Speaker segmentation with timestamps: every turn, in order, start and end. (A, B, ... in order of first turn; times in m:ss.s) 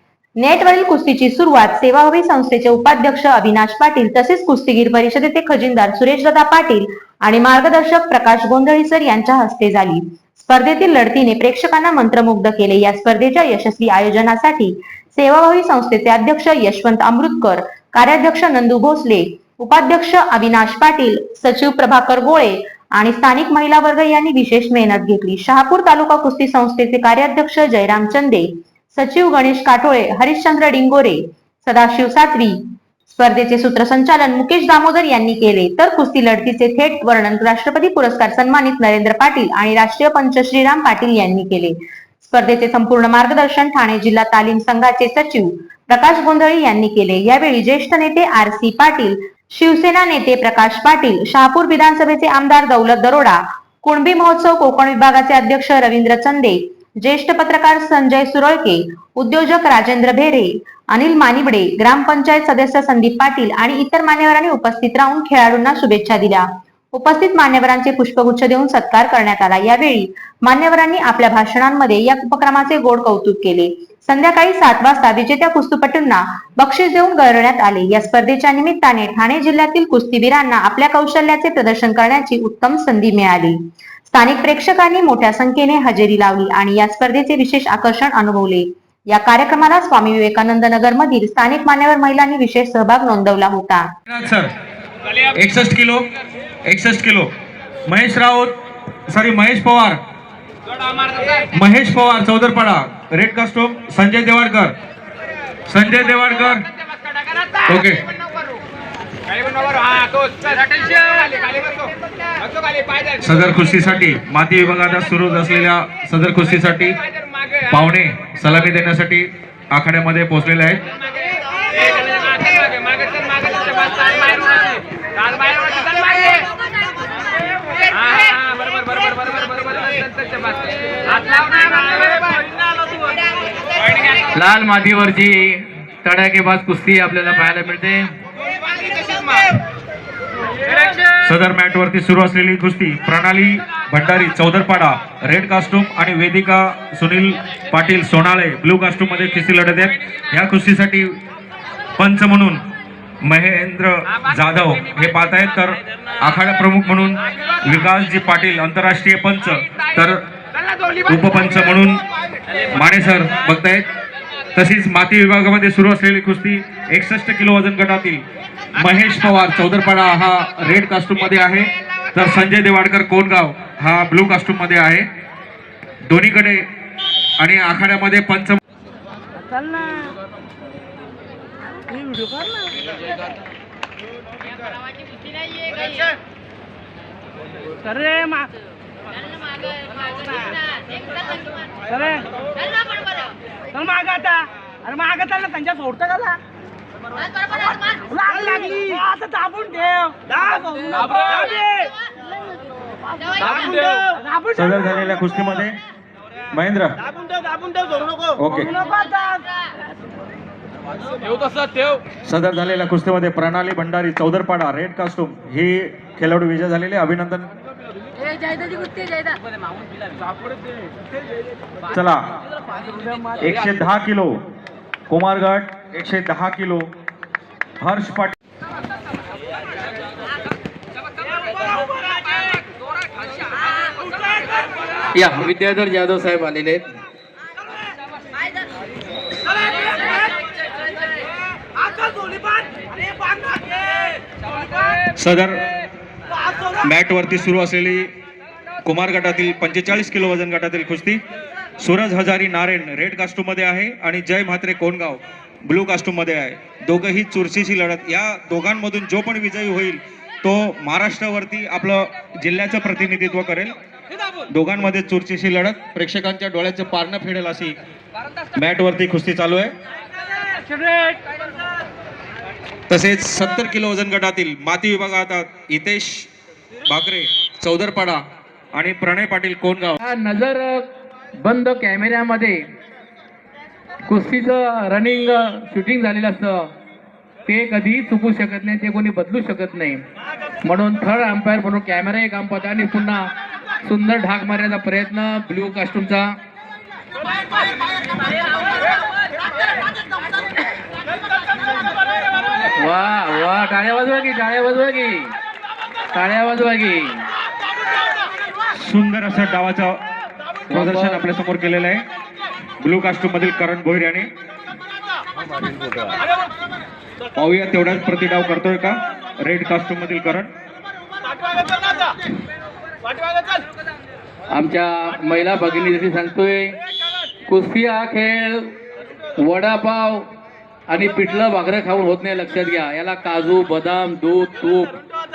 0:00.4-1:33.9 A
1:34.1-1:34.5 B
1:35.3-1:36.1 B
1:36.7-1:37.3 B
1:37.9-1:38.6 B
1:39.1-1:40.0 B
1:41.5-1:44.7 B
1:45.7-1:46.6 B
1:47.6-1:48.0 B
1:53.2-1:57.0 B
1:57.7-2:00.8 B
2:11.4-2:12.2 C
2:14.4-2:18.1 C
2:21.2-2:31.2 B
2:32.0-2:32.6 B
2:33.2-2:40.2 B
2:41.0-2:42.0 B
2:42.7-2:43.9 B
2:44.6-2:48.2 B
2:48.8-2:55.1 B
2:56.1-2:56.7 B
2:57.4-2:58.6 B
3:08.0-3:08.4 D
3:12.0-3:12.2 D
3:13.8-3:16.4 D
3:18.2-3:21.8 D
3:24.5-3:25.8 B
3:26.5-3:27.0 B
3:28.4-3:28.8 B
3:29.0-3:29.4 D
3:32.3-3:37.5 B
3:41.9-3:42.2 B
3:43.4-3:44.3 B
3:45.1-3:46.9 B
3:47.8-3:48.4 B
3:55.1-3:56.8 C
4:05.2-4:05.7 B
4:06.8-4:08.1 B
4:08.8-4:11.2 B
4:11.8-4:23.8 B
4:24.5-4:27.8 B
4:28.6-4:29.7 B
4:32.9-4:36.3 B
4:36.9-4:38.2 B
4:38.8-4:40.0 B
4:40.0-4:40.9 C
4:41.4-4:42.7 C
4:44.1-4:46.7 C
4:47.5-4:50.0 C
4:50.6-4:53.3 C
4:53.8-4:56.3 C
5:02.8-5:05.3 C
5:06.1-5:07.3 C
5:08.8-5:10.0 B
5:10.7-5:11.3 C
5:10.7-5:12.0 B
5:12.8-5:14.3 B
5:17.4-5:20.5 B
5:24.5-5:26.8 C
5:27.5-5:28.7 C
5:29.4-5:30.3 C
5:30.9-5:35.0 C